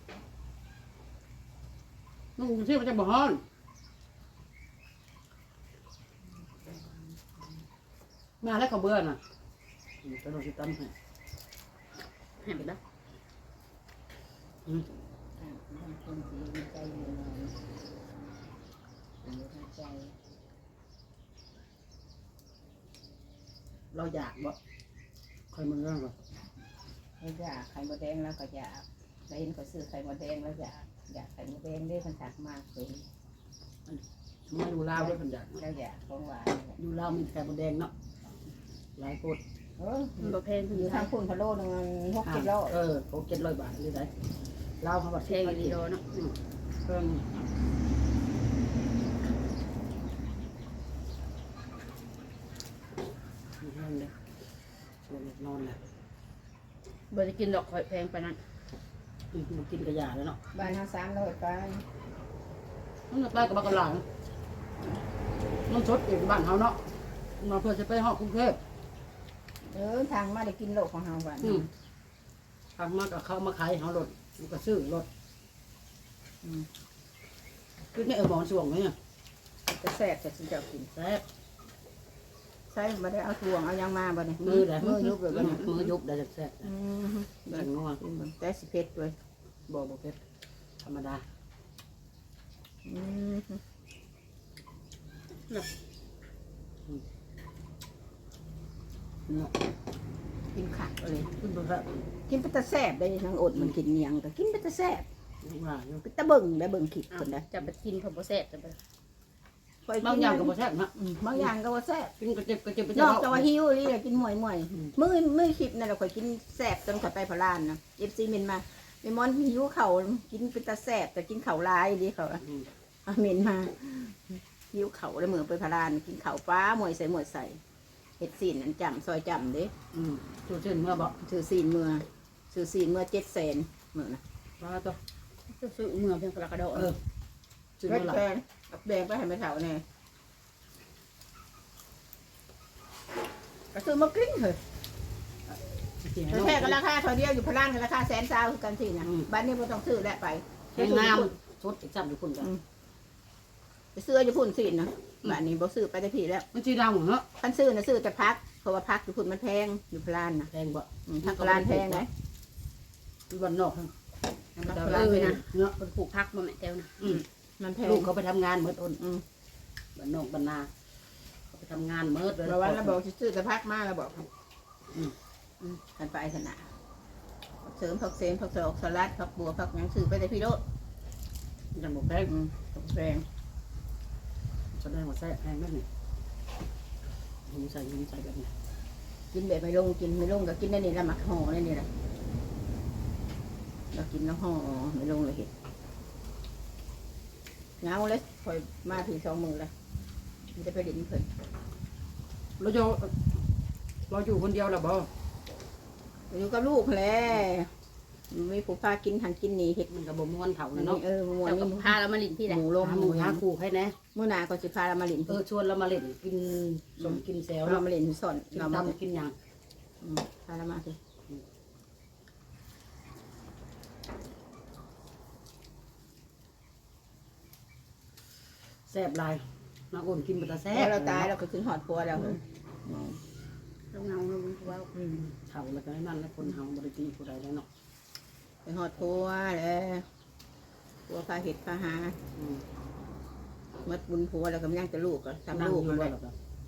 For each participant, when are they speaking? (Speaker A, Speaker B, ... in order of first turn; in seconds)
Speaker A: 2.4-3.4, 8.4-9.2, 10.0-10.9, 23.9-24.6, 25.5-26.1, 33.9-35.6, 36.8-37.9, 39.0-39.4, 42.2-44.1, 44.8-47.3, 53.6-54.1, 55.1-55.8, 59.3-60.4, 63.1-64.0, 65.7-66.8, 67.4-68.6, 71.4-71.7, 72.8-75.1, 77.9-78.9, 80.9-81.2, 84.4-86.7, 87.5-88.0, 89.7-90.2, 90.8-91.2, 99.3-99.5, 101.3-101.9, 105.4-106.0, 110.0-111.5, 112.2-113.5, 129.9-131.2, 134.6-135.0, 137.8-138.2, 145.5-146.8, 149.0-149.3, 150.8-152.5, 156.5-157.2, 160.5-162.0, 163.3-163.9, 164.6-165.8, 167.8-169.0, 169.9-170.7, 171.5-173.0, 181.7-182.3, 184.7-185.9, 187.4-188.5, 202.6-203.1, 204.1-205.1, 209.9-211.0, 212.8-213.9, 215.3-217.8, 218.5-219.3, 228.8-231.3, 235.2-237.7, 242.3-242.6, 245.5-246.3
Speaker B: 12.4-12.8, 40.2-41.1, 45.2-46.0, 57.1-58.4, 107.1-108.8, 135.5-136.9, 164.8-166.9, 211.4-212.7, 233.9-234.9
Speaker C: 15.4-17.5, 19.2-20.1, 27.2-33.0, 34.9-36.8, 39.8-42.8, 60.5-61.8, 69.7-71.7, 76.4-76.7, 79.7-80.9, 82.7-85.9, 86.6-89.2, 92.8-93.6, 100.5-101.3, 102.3-105.1, 106.0-107.5, 109.8-112.1, 112.9-122.4, 123.1-127.6, 128.2-129.7, 131.2-134.2, 137.8-139.8, 143.7-144.6, 146.3-151.3, 153.9-156.5, 157.4-160.5, 161.1-162.1, 164.6-165.4, 167.0-168.1, 169.0-169.2, 172.4-174.3, 175.7-176.7, 177.6-180.6, 182.3-183.2, 189.3-191.9, 193.9-195.5, 197.8-199.7, 200.6-201.3, 206.3-207.7, 208.3-209.9, 210.7-213.4, 214.1-215.4, 217.0-219.0, 220.0-221.0, 230.7-233.2, 234.9-235.2, 238.7-240.1, 241.1-242.2, 243.8-246.1